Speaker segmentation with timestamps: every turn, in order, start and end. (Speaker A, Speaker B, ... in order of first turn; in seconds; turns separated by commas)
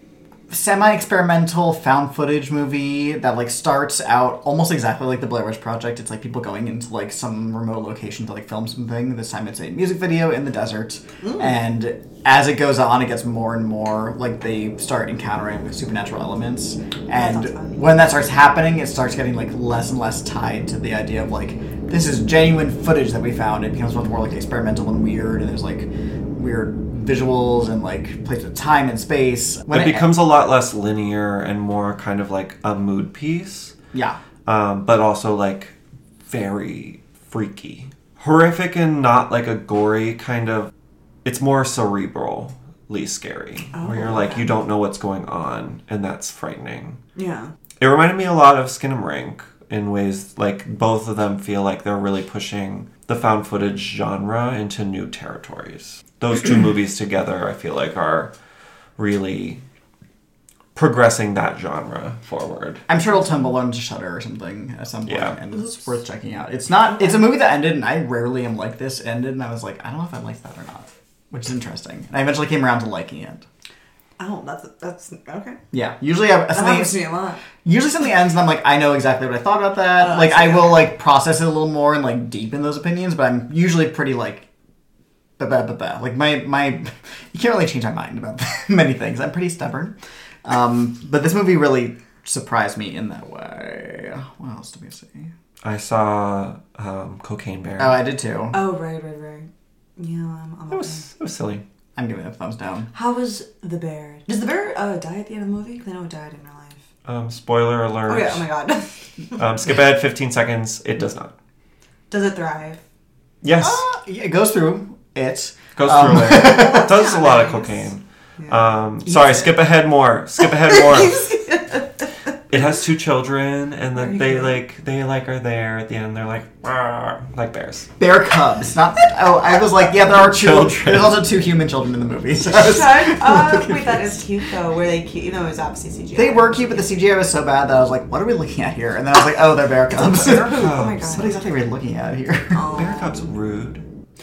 Speaker A: 0.5-30.1, Speaker B: 17.1-17.9, Speaker C: 29.7-33.8, Speaker A: 33.9-34.2, Speaker C: 34.5-35.8, Speaker C: 36.3-40.7, Speaker C: 41.2-47.0, Speaker B: 43.7-44.5, Speaker B: 47.2-47.5, Speaker C: 47.8-58.3, Speaker C: 59.0-59.6, Speaker C: 60.8-62.8, Speaker A: 62.9-73.5, Speaker C: 65.1-65.4, Speaker B: 66.9-67.3, Speaker B: 74.2-75.6, Speaker A: 75.7-77.0, Speaker B: 76.5-77.4, Speaker A: 77.6-84.5, Speaker B: 80.0-80.9, Speaker A: 85.4-95.3, Speaker C: 95.6-98.0, Speaker A: 97.8-98.6, Speaker B: 98.5-101.1, Speaker C: 100.7-101.6, Speaker A: 102.0-102.9, Speaker B: 102.9-106.8, Speaker C: 107.1-108.5, Speaker B: 108.1-109.4, Speaker C: 109.4-111.3, Speaker B: 112.1-112.8, Speaker C: 113.4-113.8, Speaker A: 113.6-116.9, Speaker C: 115.8-121.4, Speaker B: 116.4-117.9, Speaker A: 119.1-119.5, Speaker B: 120.7-122.1, Speaker C: 122.5-127.9, Speaker B: 124.0-124.6, Speaker A: 128.0-134.2, Speaker C: 130.0-131.3, Speaker B: 132.5-136.9, Speaker A: 136.2-142.6, Speaker B: 140.1-141.4, Speaker C: 140.4-141.2, Speaker B: 142.5-143.3, Speaker C: 142.7-143.9